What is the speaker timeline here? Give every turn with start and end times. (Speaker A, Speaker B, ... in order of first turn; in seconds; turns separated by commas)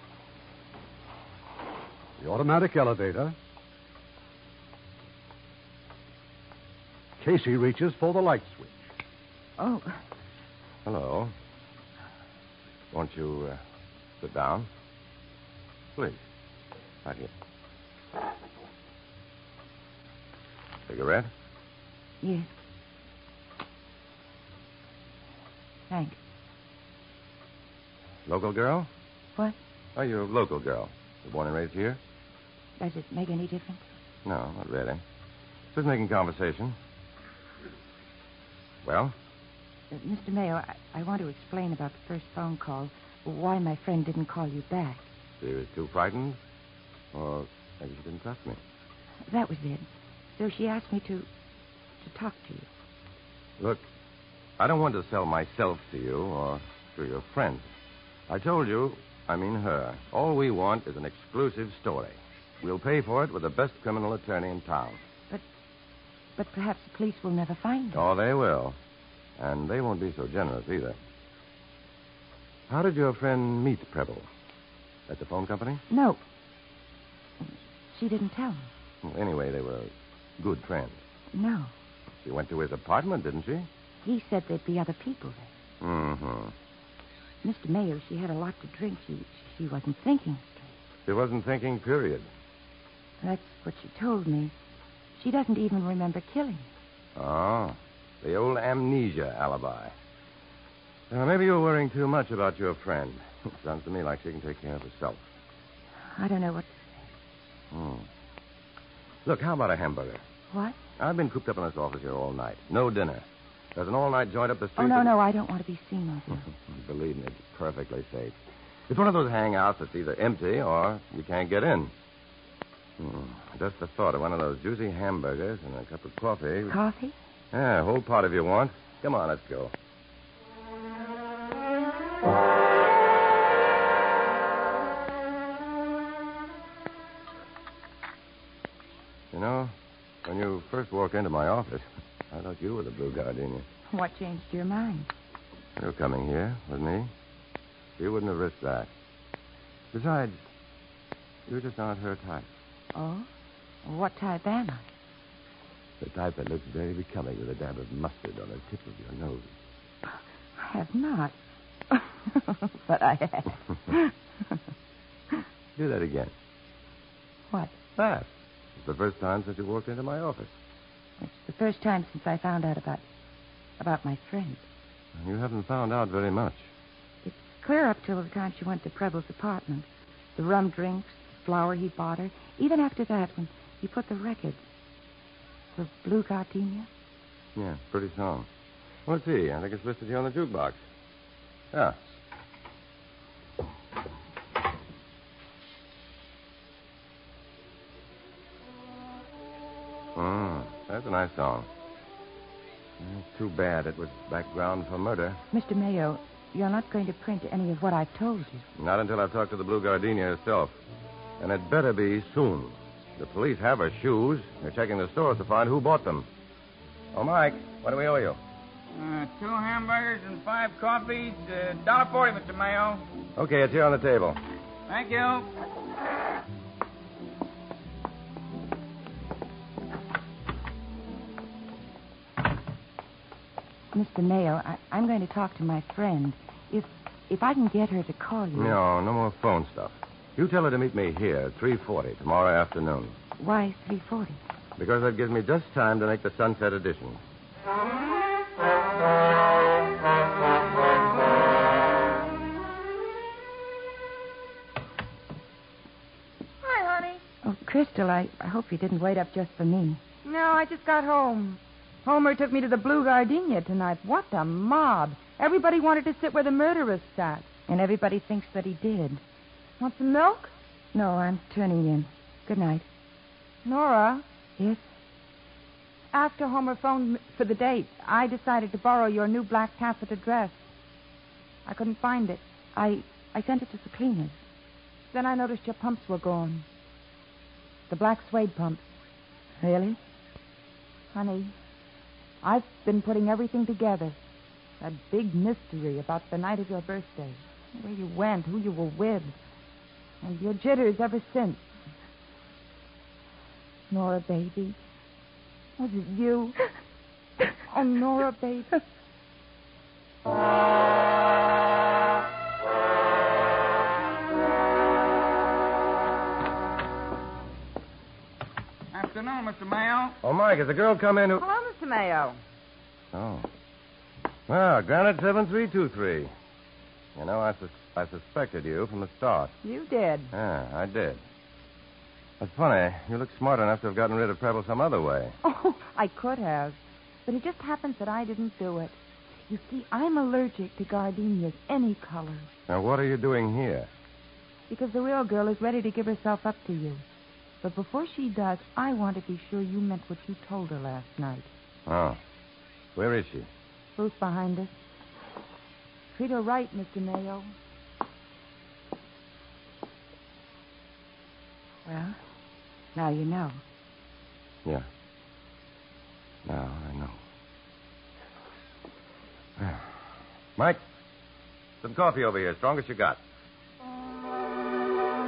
Speaker A: 2.2-3.3, Speaker A: 7.2-8.8, Speaker B: 9.6-10.0, Speaker C: 10.8-11.3, Speaker C: 12.9-13.6, Speaker C: 14.2-14.7, Speaker C: 17.0-17.3, Speaker C: 20.9-21.3, Speaker B: 22.2-22.5, Speaker B: 25.9-26.2, Speaker C: 28.3-28.9, Speaker C: 29.9-32.0, Speaker B: 32.8-33.8, Speaker C: 34.2-35.0, Speaker C: 35.7-36.8, Speaker C: 38.8-39.1, Speaker B: 39.9-45.1, Speaker C: 45.4-46.4, Speaker C: 47.1-48.6, Speaker B: 49.3-51.3, Speaker B: 52.0-52.7, Speaker C: 53.6-53.9, Speaker C: 54.6-57.7, Speaker C: 58.3-65.0, Speaker B: 66.4-68.0, Speaker C: 67.9-68.8, Speaker C: 69.4-71.0, Speaker C: 72.7-74.3, Speaker C: 75.1-75.8, Speaker B: 75.9-76.2, Speaker B: 77.4-78.7, Speaker C: 79.0-81.0, Speaker B: 81.3-81.7, Speaker C: 82.2-83.7, Speaker B: 84.0-85.5, Speaker C: 85.8-86.5, Speaker B: 87.4-90.7, Speaker C: 91.0-92.3, Speaker B: 93.2-94.5, Speaker B: 95.2-96.7, Speaker C: 97.2-99.9, Speaker C: 101.1-105.2, Speaker B: 106.2-106.8, Speaker C: 107.7-108.1, Speaker C: 109.2-110.2, Speaker B: 110.5-110.8, Speaker C: 111.0-115.1, Speaker B: 114.8-116.5, Speaker C: 116.5-118.3, Speaker C: 118.9-121.9, Speaker C: 123.0-126.7, Speaker B: 126.7-127.2, Speaker C: 127.5-129.7, Speaker C: 139.3-139.7, Speaker C: 140.2-143.7, Speaker B: 143.9-145.1, Speaker C: 145.8-147.1, Speaker C: 148.0-148.9, Speaker C: 149.9-150.4, Speaker C: 151.5-152.5, Speaker B: 152.9-153.3, Speaker B: 153.8-154.8, Speaker C: 156.0-159.5, Speaker B: 160.6-161.3, Speaker B: 161.9-164.1, Speaker C: 165.8-166.3, Speaker B: 167.5-167.8, Speaker C: 167.9-170.5, Speaker B: 171.2-173.0, Speaker B: 173.8-174.6, Speaker C: 175.2-176.7, Speaker B: 177.2-184.6, Speaker B: 185.7-186.9, Speaker C: 187.6-188.5, Speaker C: 189.1-190.8, Speaker C: 191.7-192.0, Speaker C: 200.1-201.7, Speaker C: 203.0-205.4, Speaker B: 205.5-208.6, Speaker C: 208.8-210.7, Speaker C: 211.4-216.3, Speaker C: 217.1-218.4, Speaker D: 218.9-223.0, Speaker C: 223.3-224.4, Speaker D: 224.9-225.5, Speaker B: 233.9-238.8, Speaker C: 238.5-243.1, Speaker B: 243.4-244.4, Speaker C: 244.8-247.2, Speaker E: 256.6-257.2, Speaker B: 257.4-260.0, Speaker E: 260.2-267.5, Speaker B: 267.7-269.2, Speaker E: 269.8-270.5, Speaker B: 270.9-272.9, Speaker E: 273.6-274.2, Speaker B: 274.6-274.8, Speaker E: 276.1-280.6, Speaker E: 281.6-282.4, Speaker B: 282.7-284.4, Speaker E: 285.1-286.6, Speaker E: 287.9-288.8, Speaker B: 289.6-290.0, Speaker E: 291.1-291.5, Speaker E: 292.4-294.2, Speaker E: 294.8-299.4, Speaker E: 300.2-301.6, Speaker E: 303.9-304.8, Speaker E: 305.8-306.6, Speaker E: 307.7-308.8, Speaker D: 318.9-320.2, Speaker C: 320.2-321.4, Speaker E: 321.4-322.4, Speaker C: 323.1-323.5, Speaker C: 324.5-326.3, Speaker C: 327.1-329.5, Speaker E: 329.6-330.3, Speaker C: 330.3-331.2, Speaker C: 332.4-335.3, Speaker E: 335.4-342.5, Speaker C: 342.7-343.9, Speaker E: 344.7-347.0, Speaker E: 347.6-351.5, Speaker C: 351.9-352.2, Speaker C: 352.9-353.5, Speaker E: 353.9-354.7, Speaker E: 356.1-357.5, Speaker B: 361.9-362.2, Speaker B: 362.9-363.6, Speaker C: 366.4-367.2, Speaker C: 369.6-369.9, Speaker C: 371.8-373.2